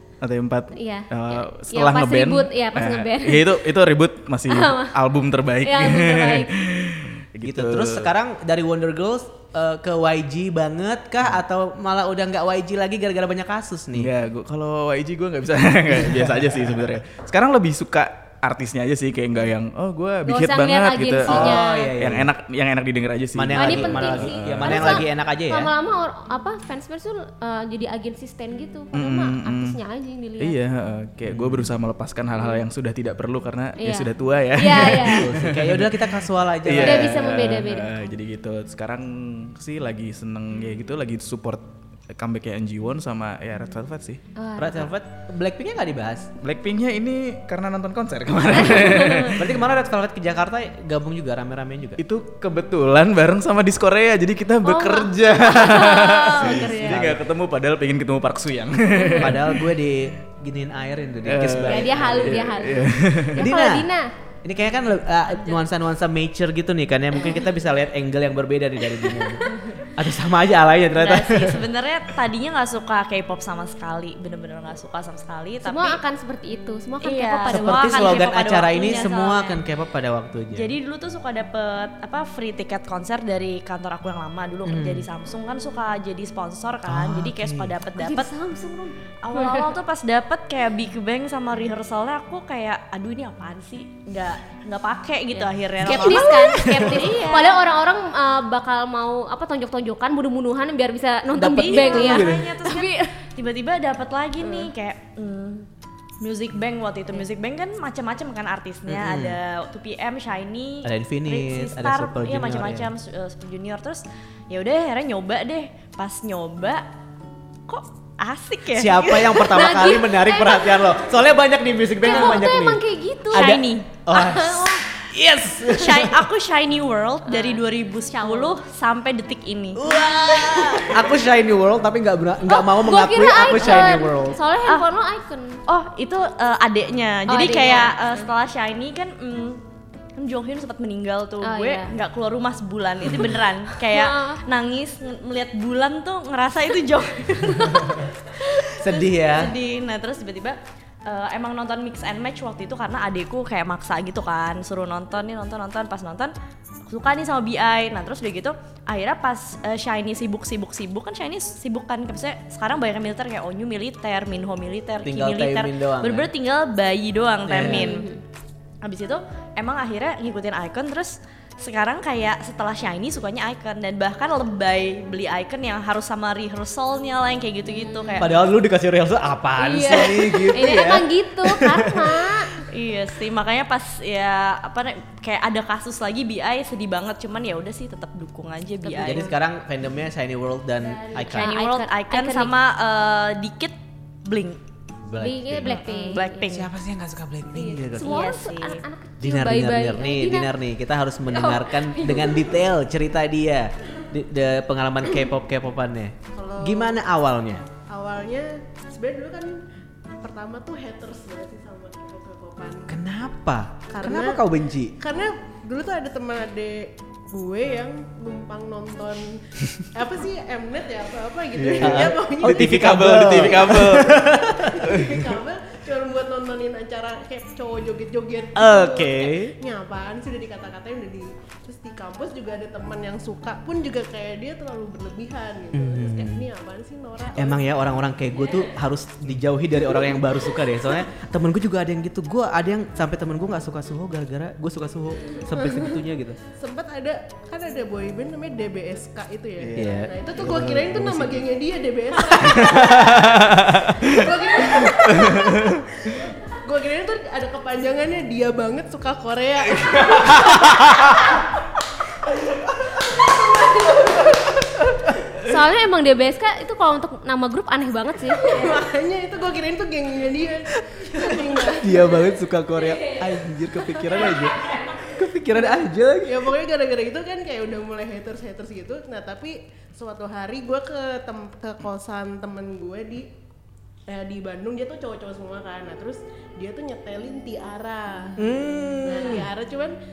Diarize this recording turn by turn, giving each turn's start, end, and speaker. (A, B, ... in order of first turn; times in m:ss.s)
0:00.2-0:08.1 A
0:00.8-0:03.7 B
0:04.5-0:05.0 B
0:05.6-0:06.5 B
0:07.4-0:14.1 C
0:14.0-0:25.0 A
0:16.0-0:16.7 C
0:20.3-0:21.9 B
0:21.3-0:22.3 C
0:23.4-0:25.7 C
0:23.6-0:30.6 B
0:28.9-0:29.8 A
0:30.4-0:44.2 A
0:31.3-0:31.7 C
0:33.8-0:35.3 B
0:34.8-0:37.2 C
0:36.8-0:38.0 B
0:44.4-0:44.9 B
0:44.6-0:46.3 C
0:46.4-0:49.6 A
0:48.6-0:52.0 C
0:48.8-0:49.3 B
0:52.0-0:59.7 A
0:54.6-0:57.1 B
0:56.4-0:57.2 C
0:59.0-0:59.3 B
0:59.2-1:02.7 C
1:01.2-1:03.5 A
1:01.6-1:04.1 B
1:03.4-1:03.9 C
1:04.4-1:11.7 C
1:10.9-1:16.0 D
1:15.6-1:19.4 B
1:17.0-1:19.6 D
1:17.5-1:20.7 C
1:20.5-1:28.3 D
1:24.6-1:25.1 C
1:26.9-1:27.7 C
1:28.0-1:29.7 B
1:29.2-1:37.7 D
1:35.3-1:43.1 B
1:35.8-1:37.1 C
1:41.4-1:42.5 C
1:41.6-1:45.7 D
1:44.4-1:44.7 B
1:46.2-1:56.9 D
1:48.9-1:49.4 C
1:50.8-1:52.9 C
1:57.7-1:59.9 D
1:58.7-2:02.8 C
1:59.5-2:01.0 B
2:02.0-2:04.9 B
2:02.0-2:02.4 D
2:03.3-2:04.0 D
2:03.3-2:06.2 C
2:05.6-2:11.0 D
2:07.3-2:08.6 B
2:09.8-2:14.4 C
2:12.5-2:15.6 B
2:13.5-2:14.0 D
2:15.7-2:19.6 D
2:17.3-2:18.3 B
2:20.2-2:36.3 D
2:21.4-2:21.9 B
2:23.0-2:23.3 C
2:23.8-2:24.4 B
2:28.7-2:29.6 C
2:36.9-2:48.2 D
2:45.0-2:46.3 C
2:47.5-2:47.9 C
2:47.6-2:48.2 B
2:48.8-2:58.4 D
2:57.7-2:58.3 B
2:58.2-3:02.4 C
2:59.6-3:02.6 B
3:02.7-3:09.3 D
3:08.8-3:09.3 B
3:09.0-3:11.5 C
3:10.8-3:12.5 B
3:11.2-3:14.6 D
3:15.1-3:18.3 C
3:15.2-3:16.6 B
3:15.7-3:16.7 D
3:17.6-3:20.5 B
3:18.0-3:18.8 D
3:19.2-3:27.7 C
3:21.3-3:22.6 B
3:26.3-3:27.0 E
3:27.9-3:29.6 E
3:30.2-3:33.0 E
3:32.9-3:35.0 C
3:33.9-3:34.4 E
3:35.0-3:43.8 E
3:41.5-3:45.2 A
3:41.8-3:45.1 C
3:44.5-3:57.7 E
3:48.6-3:49.5 C
3:55.7-3:56.5 C
3:57.4-4:06.4 C
4:06.6-4:13.3 E
4:09.6-4:11.3 A
4:09.8-4:11.2 C
4:12.4-4:15.9 A
4:13.0-4:13.8 C
4:13.9-4:21.4 E
4:20.1-4:20.6 A
4:23.1-4:24.3 E
4:23.6-4:24.3 B
4:25.4-4:28.8 B
4:28.4-4:32.0 E
4:30.9-4:36.5 C
4:36.2-4:43.3 E
4:44.1-4:48.5 E
4:48.4-4:49.5 C
4:49.0-4:50.0 E